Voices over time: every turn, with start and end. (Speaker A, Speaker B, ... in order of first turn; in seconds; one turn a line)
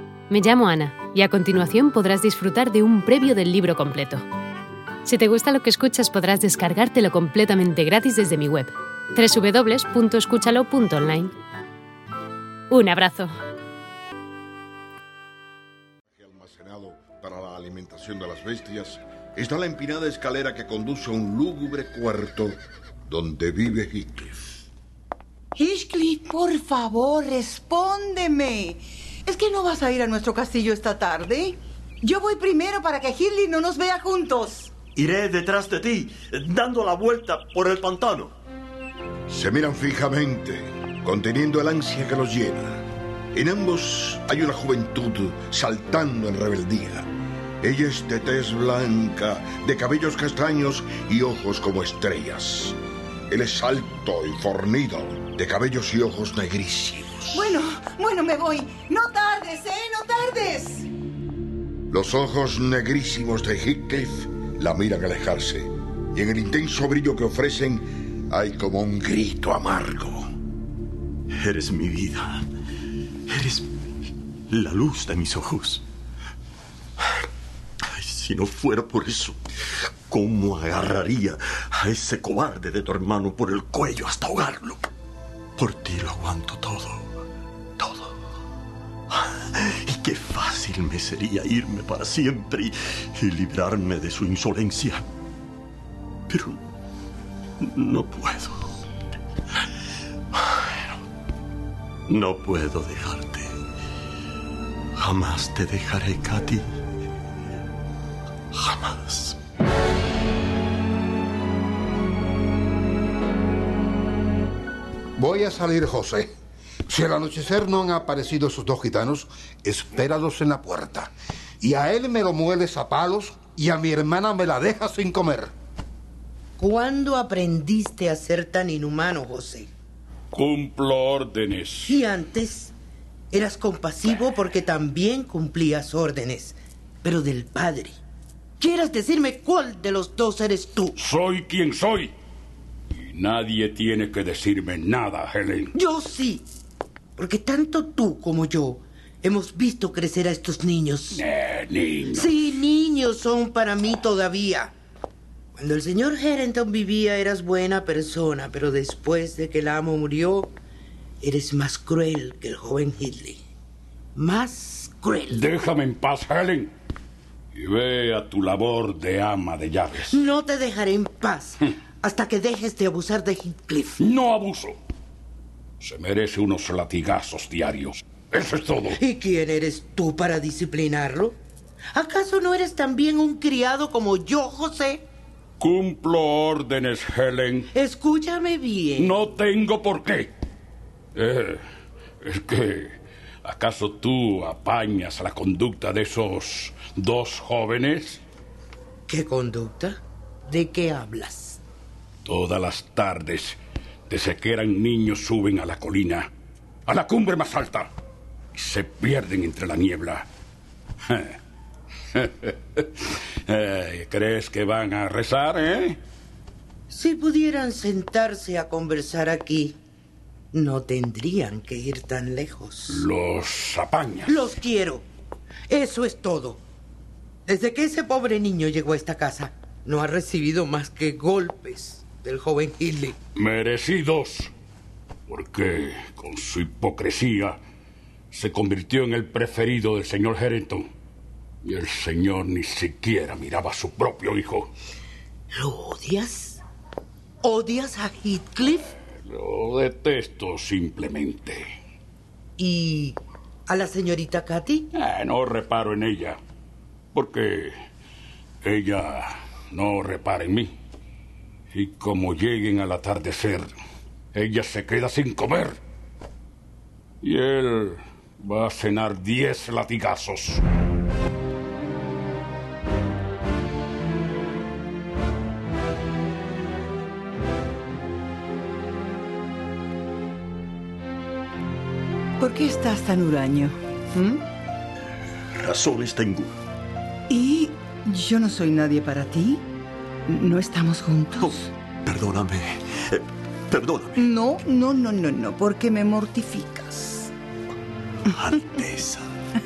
Speaker A: 0.3-4.2
Speaker A: 5.0-11.3
Speaker A: 12.7-13.3
Speaker B: 16.1-24.6
Speaker C: 25.6-34.8
Speaker D: 34.9-38.4
Speaker B: 39.3-47.1
Speaker B: 47.6-52.8
Speaker B: 53.3-57.5
Speaker C: 57.3-60.9
Speaker B: 61.9-70.3
Speaker D: 71.3-72.5
Speaker D: 73.3-73.7
Speaker D: 74.5-75.8
Speaker D: 77.9-84.9
Speaker D: 85.6-87.1
Speaker D: 87.8-88.2
Speaker D: 89.1-95.0
Speaker D: 96.3-96.6
Speaker D: 97.6-98.7
Speaker D: 100.3-101.0
Speaker D: 102.1-103.6
Speaker D: 105.0-106.7
Speaker D: 108.5-109.4
Speaker E: 115.2-116.3
Speaker E: 116.9-125.5
Speaker F: 126.6-129.7
Speaker G: 130.3-132.0
Speaker F: 131.9-132.7
Speaker F: 133.3-138.0
Speaker F: 138.6-140.9
Speaker G: 141.0-142.1
Speaker G: 142.9-145.7
Speaker F: 145.7-146.4
Speaker F: 147.2-151.2
Speaker G: 151.1-152.4
Speaker F: 152.1-154.7
Speaker F: 155.6-160.5
Speaker F: 161.2-163.4
Speaker F: 164.1-165.5
Speaker G: 165.3-166.7
Speaker G: 167.5-170.2
Speaker F: 170.1-174.0
Speaker G: 174.0-174.8
Speaker G: 175.8-179.0
Speaker F: 178.9-181.3
Speaker F: 181.9-185.0
Speaker G: 185.6-187.7
Speaker F: 187.7-189.2
Speaker G: 189.0-190.3
Speaker G: 191.1-191.6
Speaker G: 192.2-198.2
Speaker F: 199.1-201.6
Speaker G: 202.2-203.6
Speaker G: 204.1-206.3
Speaker G: 206.9-207.9
Speaker G: 208.5-210.2
Speaker G: 211.1-211.4
Speaker G: 212.1-216.0
Speaker F: 216.9-219.8
Speaker F: 220.5-223.1
Speaker G: 222.9-224.5
Speaker F: 224.2-225.0
Speaker F: 225.7-226.6
Speaker F: 227.4-233.2
Speaker G: 233.3-234.5
Speaker G: 235.3-237.6
Speaker G: 238.3-240.8
Speaker G: 241.6-244.7
Speaker F: 245.5-246.6
Speaker F: 247.4-248.9
Speaker G: 249.1-251.6
Speaker F: 252.6-254.9
Speaker G: 254.9-256.4
Speaker G: 257.1-257.7
Speaker G: 258.6-260.7
Speaker G: 261.7-263.7
Speaker G: 264.3-265.8
Speaker G: 267.2-270.6
Speaker C: 282.4-284.4
Speaker D: 285.5-286.6
Speaker C: 287.3-289.6
Speaker C: 290.3-291.7
Speaker D: 291.4-294.3
Speaker C: 294.1-297.3
Speaker D: 298.3-299.4